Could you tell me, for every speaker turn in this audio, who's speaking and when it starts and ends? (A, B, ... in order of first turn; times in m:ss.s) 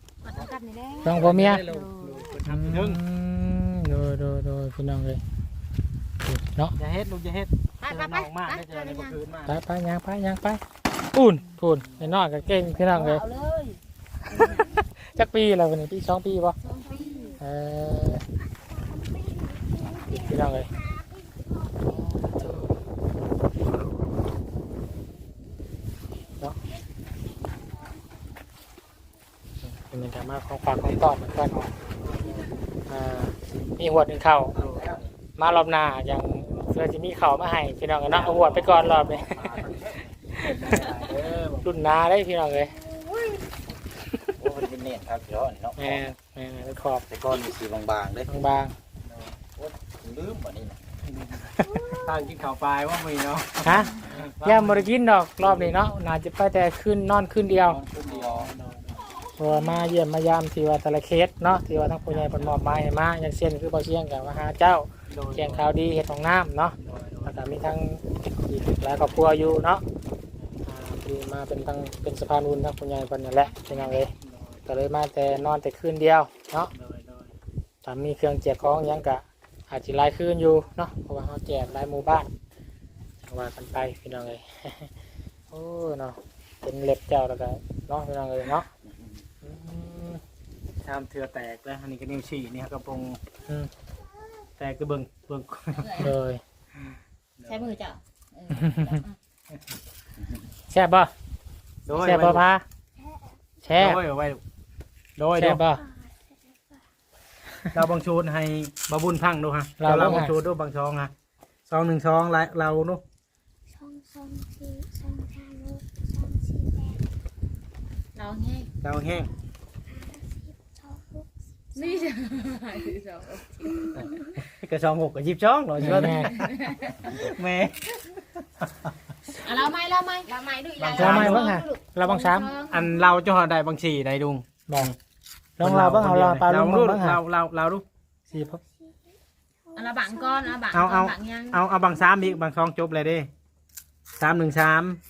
0:00.2-0:02.3 A
0:01.0-0:01.6 B
0:01.1-0:03.0 C
0:02.4-0:05.2 B
0:06.2-0:06.8 B
0:06.8-0:09.6 C
0:07.8-0:09.2 A
0:09.5-0:10.6 B
0:11.1-0:13.2 B
0:11.8-0:12.1 C
0:12.8-0:14.8 A
0:14.3-0:16.6 B
0:16.6-0:17.4 A
0:17.4-0:18.2 B
0:18.8-0:21.0 D
0:20.1-0:20.7 B
0:21.6-0:22.1 D
0:21.8-0:22.7 B
0:29.6-0:31.6 B
0:30.8-0:32.4 C
0:32.9-0:34.5 B
0:34.6-0:35.1 E
0:34.6-0:35.0 C
0:35.4-0:39.6 B
0:38.1-0:41.7 C
0:38.2-0:40.0 E
0:40.4-0:40.7 B
0:40.9-0:41.4 E
0:41.6-0:42.7 B
0:44.4-0:46.0 E
0:45.8-0:47.1 B
0:47.1-0:48.3 E
0:48.3-0:48.8 B
0:49.0-0:49.4 C
0:49.5-0:50.8 E
0:51.0-0:55.8 C
0:51.6-0:51.9 B
0:53.6-0:57.8 B
0:57.6-0:58.5 E
0:58.0-0:59.0 C
0:59.4-1:09.8 B
1:02.1-1:02.6 C
1:05.1-1:05.7 C
1:06.8-1:07.5 C
1:08.6-1:09.2 C
1:10.6-1:14.1 B
1:13.4-1:14.1 A
1:14.2-1:14.6 C
1:14.7-1:16.7 B
1:16.7-1:17.3 C
1:17.8-1:22.3 B
1:23.2-1:24.9 B
1:25.5-1:28.7 B
1:29.4-1:30.2 B
1:30.8-1:33.2 C
1:34.6-1:36.0 C
1:35.8-1:36.2 A
1:36.0-1:36.4 B
1:36.7-1:37.8 C
1:37.5-1:39.2 A
1:38.5-1:39.0 B
1:40.7-1:41.1 B
1:41.9-1:42.4 C
1:41.9-1:42.6 B
1:43.6-1:44.0 B
1:43.8-1:44.4 C
1:45.2-1:45.6 C
1:45.4-1:45.8 B
1:45.7-1:46.8 D
1:47.7-1:51.1 C
1:49.8-1:50.4 B
1:51.7-1:53.0 C
1:53.7-1:57.0 D
1:58.2-1:58.7 A
1:58.8-1:59.3 C
1:59.9-2:02.1 D
2:01.8-2:03.9 A
2:03.6-2:04.4 D
2:03.9-2:06.5 C
2:05.8-2:06.3 B
2:06.3-2:07.3 A
2:07.0-2:09.0 C
2:09.4-2:13.0 A
2:10.8-2:11.5 C
2:11.0-2:12.5 B
2:12.7-2:15.0 C
2:14.7-2:14.9 B
2:15.6-2:17.2 B
2:15.6-2:17.8 C
2:18.3-2:19.0 D
2:18.3-2:18.6 B
2:19.7-2:20.6 D
2:19.8-2:21.6 A
2:20.7-2:23.3 C
2:21.8-2:22.3 D
2:24.2-2:25.0 C